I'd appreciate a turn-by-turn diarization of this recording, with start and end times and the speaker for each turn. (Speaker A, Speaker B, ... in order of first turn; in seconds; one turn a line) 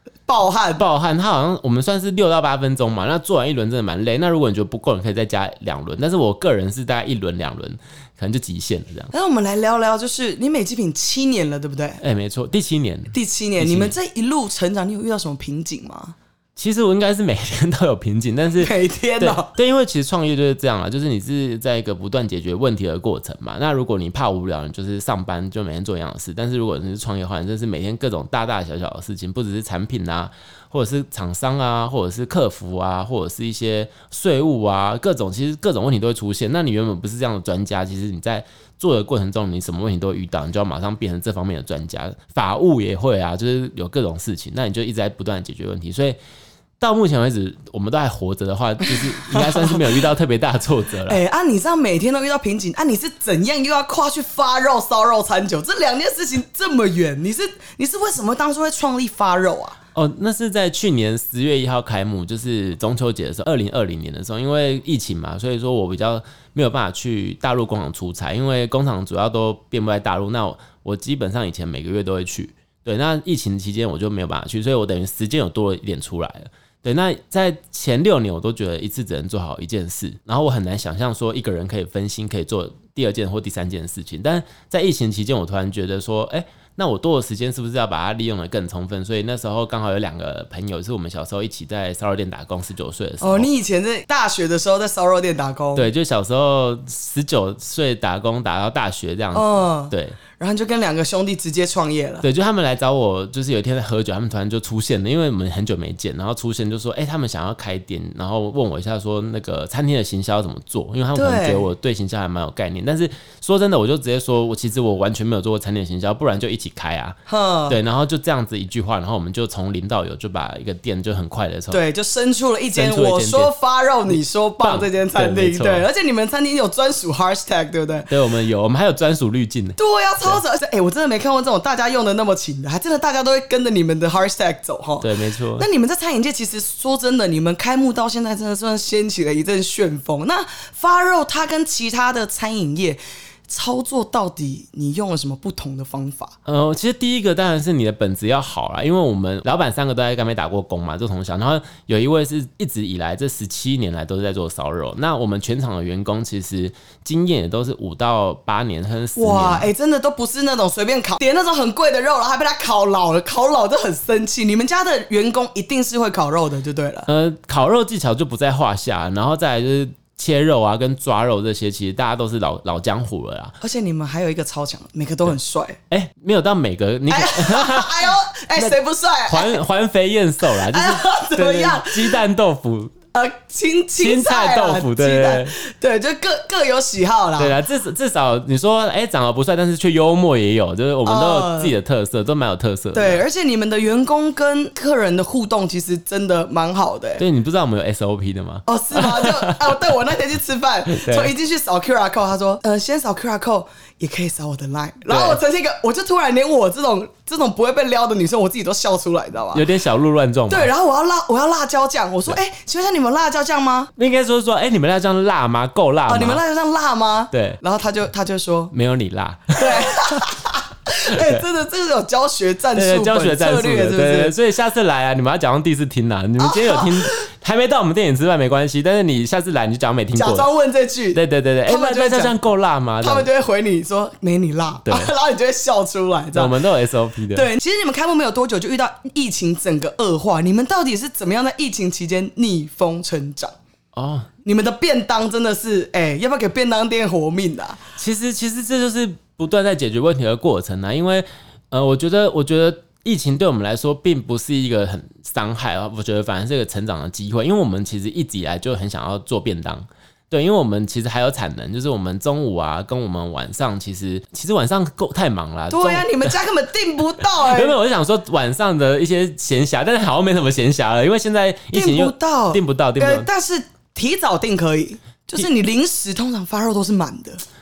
Speaker A: 0.3-0.8
Speaker B: 0.8-9.1
Speaker A: 9.1-12.0
Speaker B: 12.0-13.9
Speaker A: 13.1-16.1
Speaker B: 16.6-46.2
Speaker A: 18.6-19.5
Speaker B: 46.8-51.2
Speaker A: 49.3-49.8
Speaker A: 51.1-59.8
Speaker B: 59.9-93.5
Speaker A: 93.2-95.9
Speaker B: 95.7-100.2
Speaker A: 99.3-102.2
Speaker B: 102.2-121.8
Speaker A: 111.1-111.7
Speaker A: 117.3-117.8
Speaker A: 121.7-128.1
Speaker B: 122.7-123.5
Speaker B: 124.1-125.8
Speaker B: 128.1-130.4
Speaker A: 129.8-146.3
Speaker B: 135.0-135.7
Speaker B: 146.4-159.7
Speaker A: 159.2-167.1
Speaker B: 167.1-173.6
Speaker A: 173.6-175.8
Speaker B: 175.9-182.9
Speaker A: 177.1-179.6
Speaker A: 180.5-182.2
Speaker A: 183.1-187.6
Speaker B: 184.0-185.5
Speaker B: 187.4-193.2
Speaker A: 191.0-191.7
Speaker A: 192.9-197.2
Speaker B: 197.2-199.8
Speaker A: 198.7-209.6
Speaker B: 200.9-201.3
Speaker B: 205.1-205.4
Speaker B: 209.5-210.7
Speaker A: 210.5-213.9
Speaker B: 214.0-216.4
Speaker A: 216.1-218.7
Speaker B: 217.3-217.6
Speaker B: 218.7-220.3
Speaker A: 219.5-224.3
Speaker B: 221.0-221.4
Speaker B: 222.7-230.5
Speaker A: 226.4-227.3
Speaker A: 230.1-232.3
Speaker B: 231.1-233.3
Speaker A: 233.0-236.5
Speaker B: 234.8-235.1
Speaker B: 236.3-237.5
Speaker A: 237.3-243.5
Speaker B: 243.9-244.3
Speaker A: 244.4-247.8
Speaker B: 248.0-266.3
Speaker A: 265.7-267.8
Speaker B: 267.2-273.3
Speaker A: 271.7-277.4